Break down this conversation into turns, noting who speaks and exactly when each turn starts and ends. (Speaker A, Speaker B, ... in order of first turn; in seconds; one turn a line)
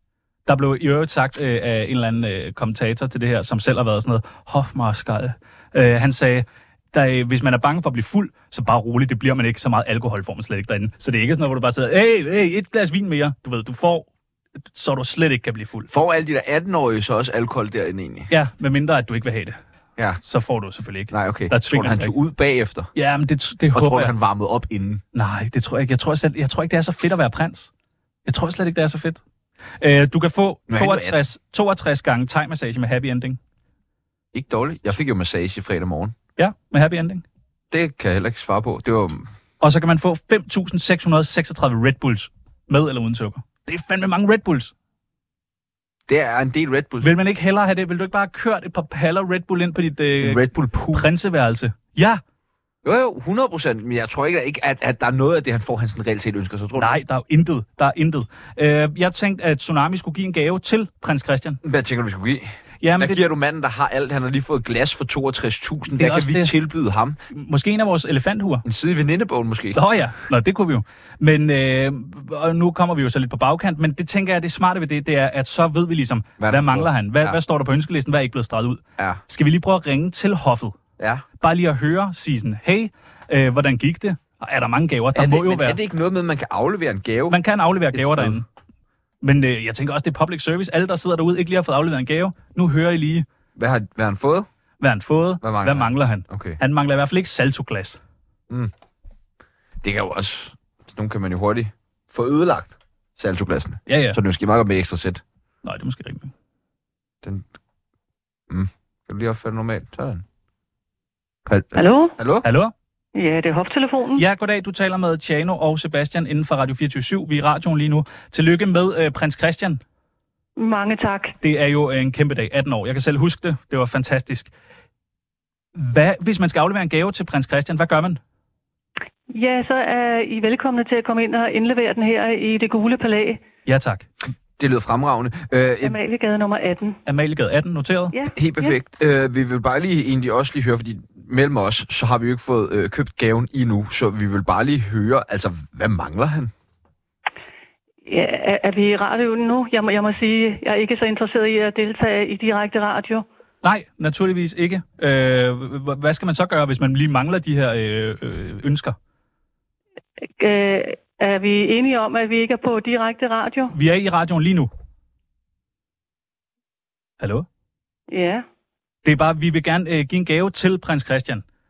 Speaker A: 0.5-14.1
Speaker A: 14.7-15.9
Speaker B: 15.9-18.3
Speaker A: 18.3-19.6
Speaker A: 20.2-22.1
Speaker B: 21.1-22.9
Speaker A: 22.9-24.1
Speaker B: 23.7-25.0
Speaker A: 25.1-27.7
Speaker A: 28.2-29.2
Speaker A: 29.8-33.4
Speaker B: 30.7-31.2
Speaker B: 34.3-36.1
Speaker A: 36.4-37.2
Speaker B: 37.7-39.3
Speaker A: 39.6-44.7
Speaker B: 46.1-47.1
Speaker A: 47.0-50.4
Speaker B: 50.2-51.1
Speaker A: 50.9-52.2
Speaker B: 52.8-56.9
Speaker A: 56.8-61.6
Speaker B: 61.6-67.2
Speaker A: 62.8-63.2
Speaker A: 65.9-66.5
Speaker A: 67.3-68.6
Speaker B: 68.6-69.8
Speaker A: 69.7-80.8
Speaker B: 76.4-77.4
Speaker B: 81.0-81.2
Speaker A: 81.4-85.8
Speaker B: 85.1-87.4
Speaker A: 87.3-88.4
Speaker B: 87.9-88.4
Speaker A: 89.2-93.2
Speaker B: 93.6-94.5
Speaker A: 94.8-98.0
Speaker B: 95.4-96.6
Speaker B: 99.8-105.2
Speaker A: 103.9-104.2
Speaker A: 105.6-106.3
Speaker B: 108.5-110.2
Speaker B: 111.5-112.4
Speaker C: 111.7-112.1
Speaker A: 112.4-112.7
Speaker C: 113.1-114.2
Speaker A: 114.2-119.8
Speaker C: 120.6-121.3
Speaker A: 121.4-124.5
Speaker A: 125.7-128.2
Speaker C: 129.3-133.4
Speaker A: 133.7-134.1
Speaker B: 134.6-136.0
Speaker C: 135.8-137.0
Speaker A: 137.1-138.1
Speaker C: 138.1-138.8
Speaker B: 138.3-146.5
Speaker C: 148.0-153.2
Speaker A: 153.6-158.9
Speaker C: 160.4-163.7
Speaker A: 163.7-164.7
Speaker A: 167.2-167.5
Speaker C: 168.1-168.4
Speaker A: 169.0-171.4